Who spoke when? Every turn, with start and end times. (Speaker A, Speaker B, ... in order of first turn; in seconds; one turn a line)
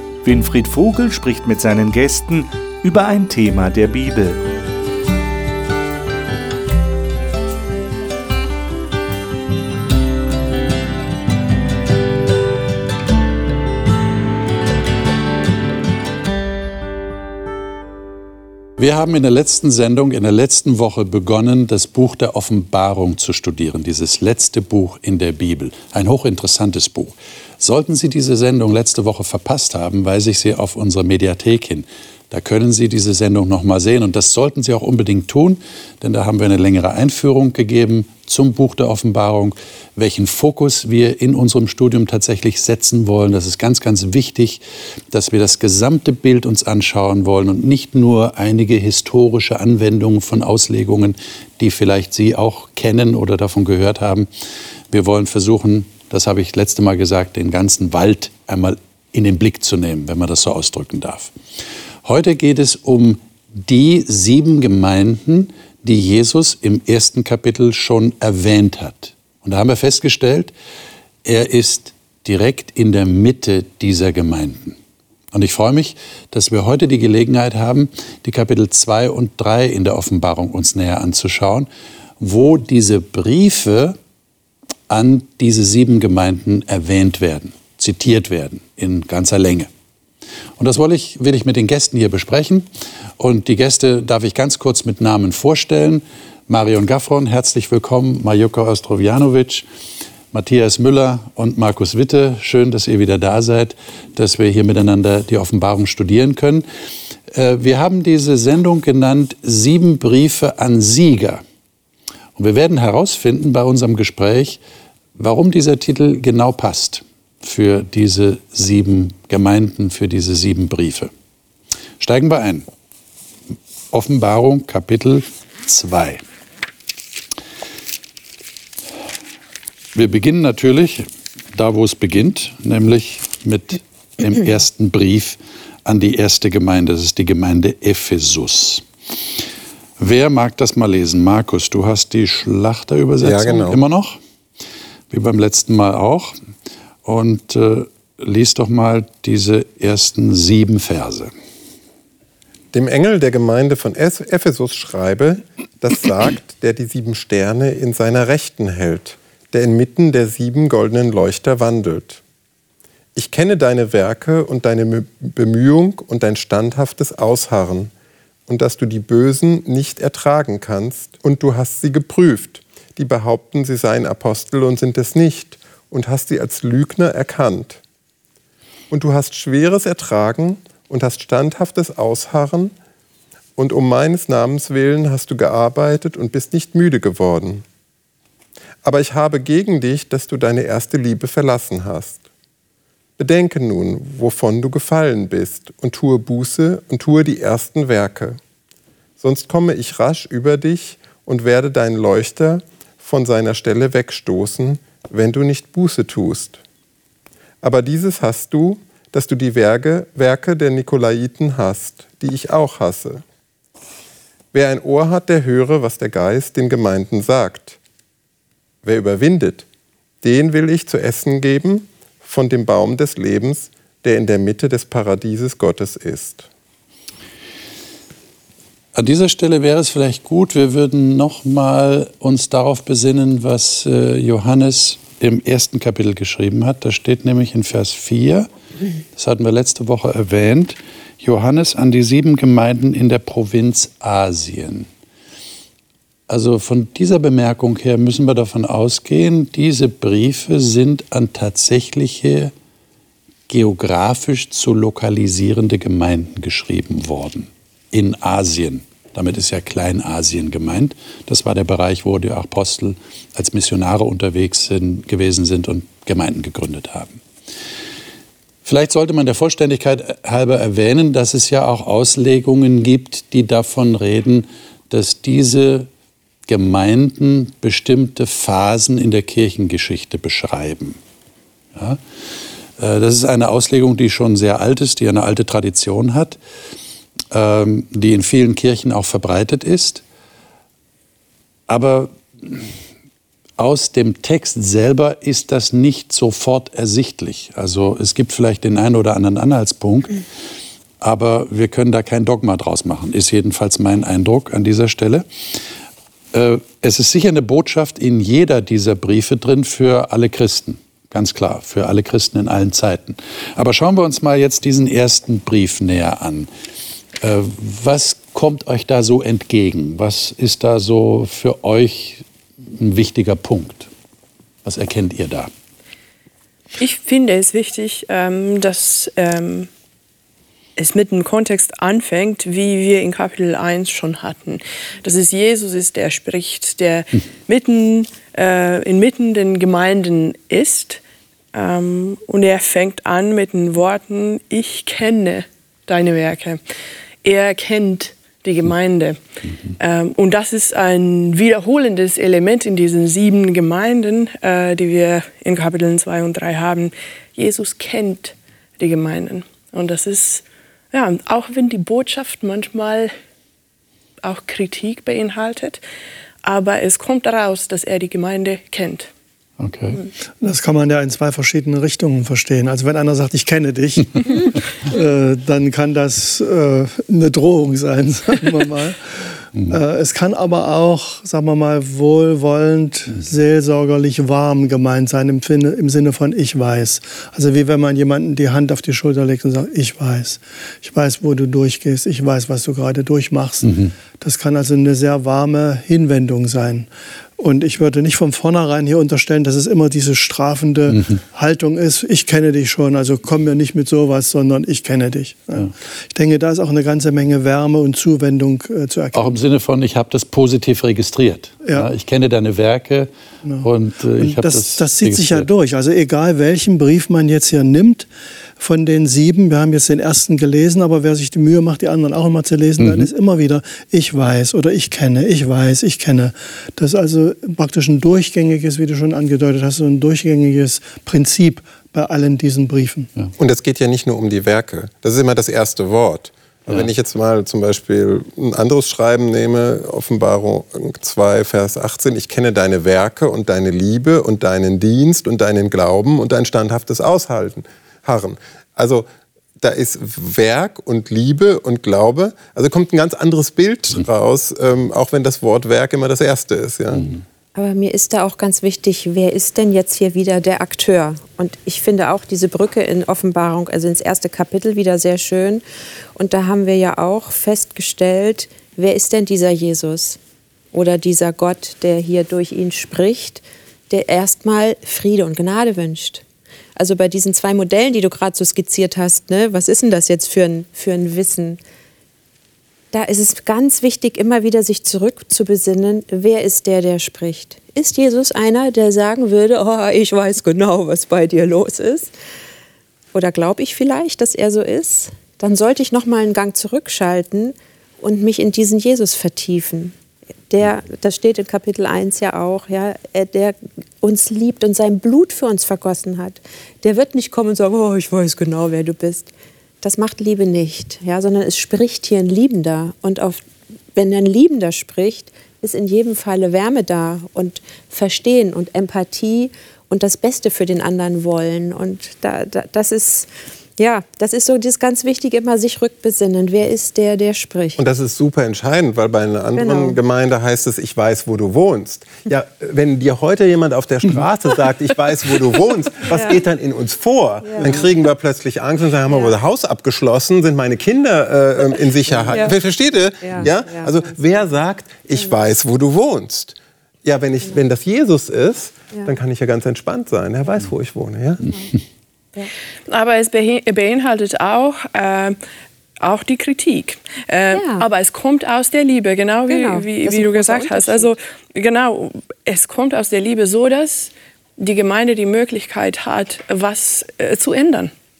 Speaker A: 0.2-4.4
Speaker B: 18.8-54.3
Speaker B: 54.9-61.3
Speaker B: 62.0-70.5
Speaker B: 71.2-74.8
Speaker B: 75.3-81.7
Speaker B: 82.2-84.0
Speaker B: 84.9-89.7
Speaker B: 90.6-92.7
Speaker B: 93.2-99.7
Speaker B: 100.3-106.7
Speaker B: 107.3-111.4
Speaker B: 112.3-114.6
Speaker B: 115.2-121.1
Speaker B: 122.0-122.7
Speaker B: 123.9-126.2
Speaker B: 129.9-138.8
Speaker B: 140.0-144.2
Speaker C: 143.2-143.8
Speaker B: 145.1-146.3
Speaker B: 147.0-151.3
Speaker C: 152.7-162.2
Speaker C: 163.1-167.9
Speaker C: 168.5-177.8
Speaker C: 178.9-182.7
Speaker C: 183.6-187.6
Speaker C: 188.8-192.2
Speaker C: 193.2-198.4
Speaker C: 199.2-206.6
Speaker C: 207.6-213.2
Speaker C: 214.5-217.8
Speaker C: 218.8-219.7
Speaker C: 220.2-226.5
Speaker B: 228.9-238.5
Speaker B: 239.2-244.9
Speaker B: 246.3-252.5
Speaker B: 253.5-267.2
Speaker B: 268.6-275.9
Speaker B: 276.5-281.0
Speaker B: 281.7-282.0
Speaker B: 282.8-286.4
Speaker B: 287.3-290.0
Speaker B: 291.7-292.7
Speaker B: 293.6-300.2
Speaker B: 301.0-305.2
Speaker B: 306.3-316.5
Speaker B: 317.2-323.9
Speaker B: 324.6-325.5
Speaker D: 326.8-329.7
Speaker D: 330.8-341.0
Speaker D: 341.5-346.6
Speaker D: 347.2-349.2
Speaker D: 349.8-363.1
Speaker D: 364.2-365.8
Speaker D: 366.4-369.1
Speaker B: 369.6-370.0
Speaker E: 370.4-396.9
Speaker B: 393.6-393.9
Speaker E: 397.4-409.3
Speaker B: 400.9-401.2
Speaker B: 409.1-413.1
Speaker B: 413.6-415.5
Speaker E: 414.2-433.1
Speaker B: 422.8-423.1
Speaker C: 433.4-449.1
Speaker C: 449.6-457.1
Speaker F: 457.5-465.6
Speaker F: 466.1-470.2
Speaker F: 470.7-476.2
Speaker F: 476.8-481.6
Speaker F: 482.9-492.1
Speaker F: 493.1-499.9
Speaker F: 500.5-527.8
Speaker C: 527.8-551.5
Speaker F: 529.5-530.0
Speaker F: 536.1-536.4
Speaker F: 537.4-537.8
Speaker F: 543.2-544.0
Speaker D: 552.9-555.4
Speaker D: 556.0-567.9
Speaker F: 557.5-557.9
Speaker F: 559.5-561.1